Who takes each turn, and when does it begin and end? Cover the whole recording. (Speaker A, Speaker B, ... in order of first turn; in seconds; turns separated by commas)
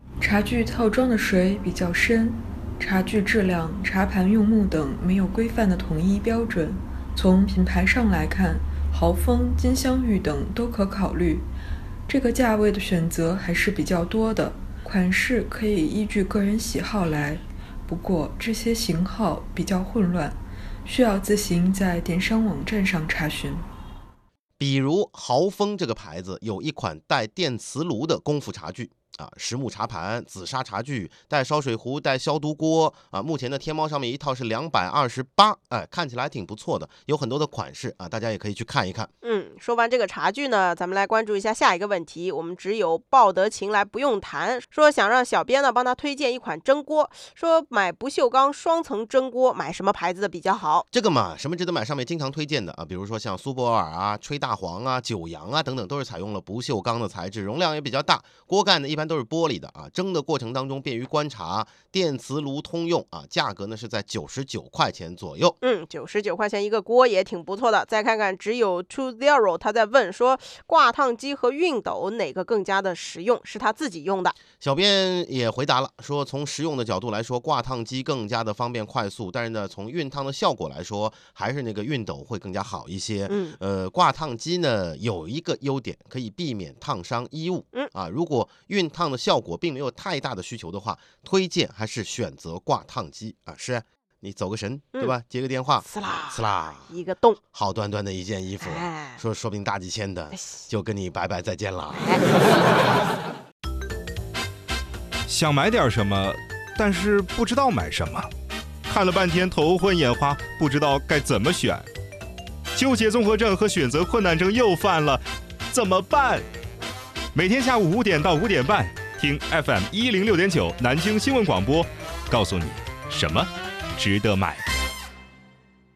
Speaker A: 0.2-11.4, Speaker A: 12.1-23.7, Speaker B: 24.6-39.1, Speaker C: 39.2-50.9, Speaker B: 50.9-65.6, Speaker C: 65.6-74.4, Speaker B: 74.6-96.9, Speaker C: 83.3-83.6, Speaker C: 95.8-97.4, Speaker B: 97.5-102.2, Speaker C: 98.6-99.2, Speaker C: 100.3-100.6, Speaker C: 101.9-102.2, Speaker D: 105.3-108.3, Speaker D: 108.9-111.9, Speaker D: 112.8-116.5, Speaker D: 117.3-124.7